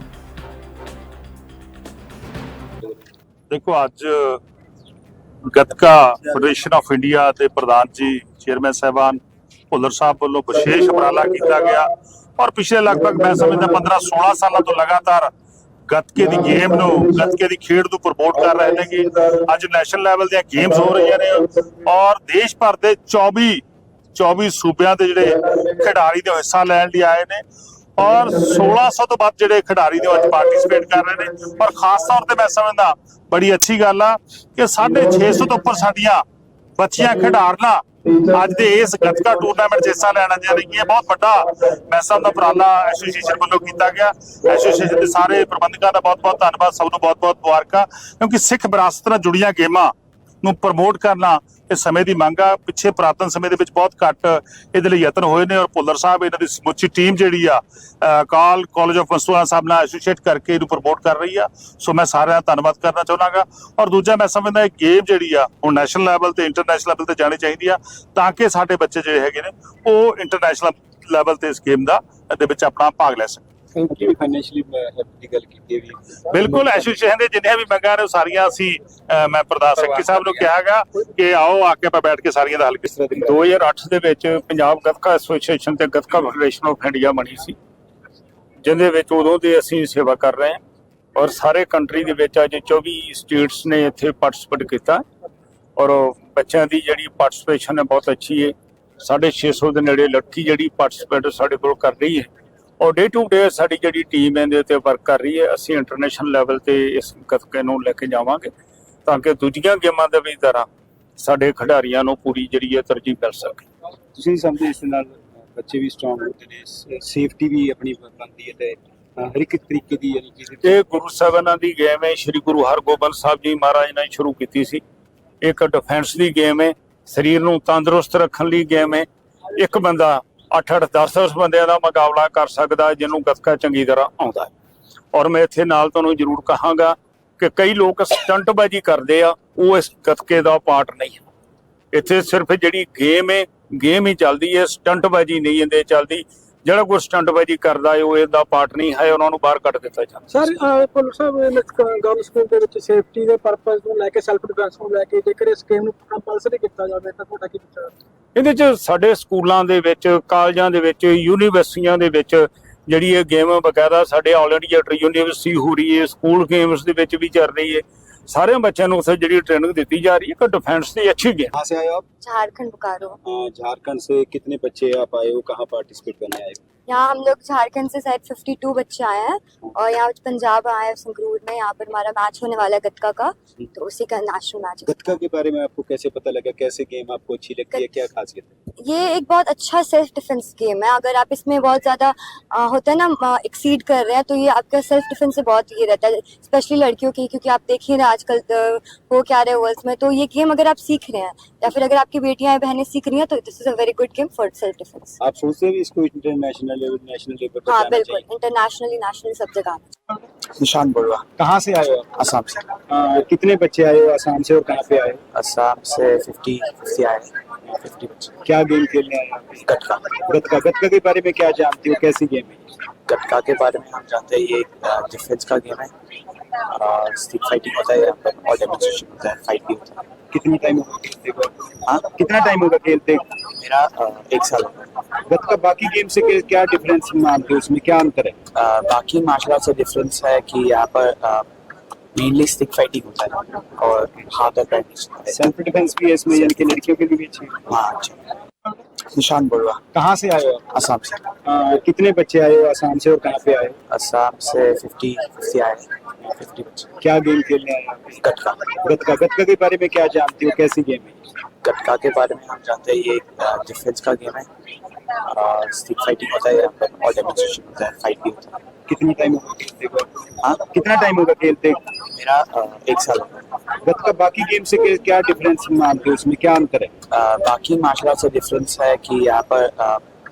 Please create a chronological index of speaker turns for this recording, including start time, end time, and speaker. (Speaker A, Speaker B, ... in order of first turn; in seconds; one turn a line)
Speaker A: 3.5-4.4
Speaker A: 5.5-15.3
Speaker A: 15.9-23.6
Speaker A: 24.1-27.4
Speaker A: 28.0-36.2
Speaker A: 36.8-73.4
Speaker B: 73.8-76.9
Speaker A: 76.3-82.9
Speaker B: 82.9-83.4
Speaker C: 83.2-87.5
Speaker C: 88.6-90.6
Speaker C: 91.1-95.0
Speaker C: 95.8-102.3
Speaker C: 102.8-108.5
Speaker C: 109.0-110.7
Speaker C: 111.2-113.6
Speaker B: 114.1-120.8
Speaker C: 120.6-124.8
Speaker C: 125.4-134.5
Speaker C: 135.1-141.2
Speaker C: 141.9-150.5
Speaker D: 150.4-157.9
Speaker C: 158.3-171.5
Speaker B: 171.5-172.0
Speaker E: 172.2-173.2
Speaker B: 173.2-176.6
Speaker E: 176.9-185.0
Speaker B: 184.8-188.5
Speaker E: 187.7-188.0
Speaker E: 188.8-205.2
Speaker B: 205.2-208.3
Speaker E: 207.7-209.8
Speaker F: 210.6-211.3
Speaker B: 211.4-212.1
Speaker F: 212.1-212.6
Speaker B: 212.9-215.2
Speaker F: 215.3-218.3
Speaker B: 218.4-219.6
Speaker F: 219.7-220.1
Speaker B: 220.2-222.7
Speaker F: 223.1-225.9
Speaker F: 226.6-229.9
Speaker B: 230.3-233.2
Speaker F: 233.5-234.8
Speaker B: 235.2-238.4
Speaker F: 238.5-241.5
Speaker F: 242.2-245.4
Speaker B: 245.3-247.6
Speaker F: 247.7-248.2
Speaker F: 249.1-249.8
Speaker B: 249.9-250.7
Speaker F: 250.7-251.2
Speaker B: 251.4-253.8
Speaker F: 253.9-256.9
Speaker B: 257.0-258.2
Speaker F: 258.2-258.7
Speaker B: 258.8-261.2
Speaker F: 261.6-264.5
Speaker F: 265.2-268.5
Speaker B: 268.9-271.9
Speaker F: 272.1-273.4
Speaker B: 273.8-276.9
Speaker F: 277.1-280.0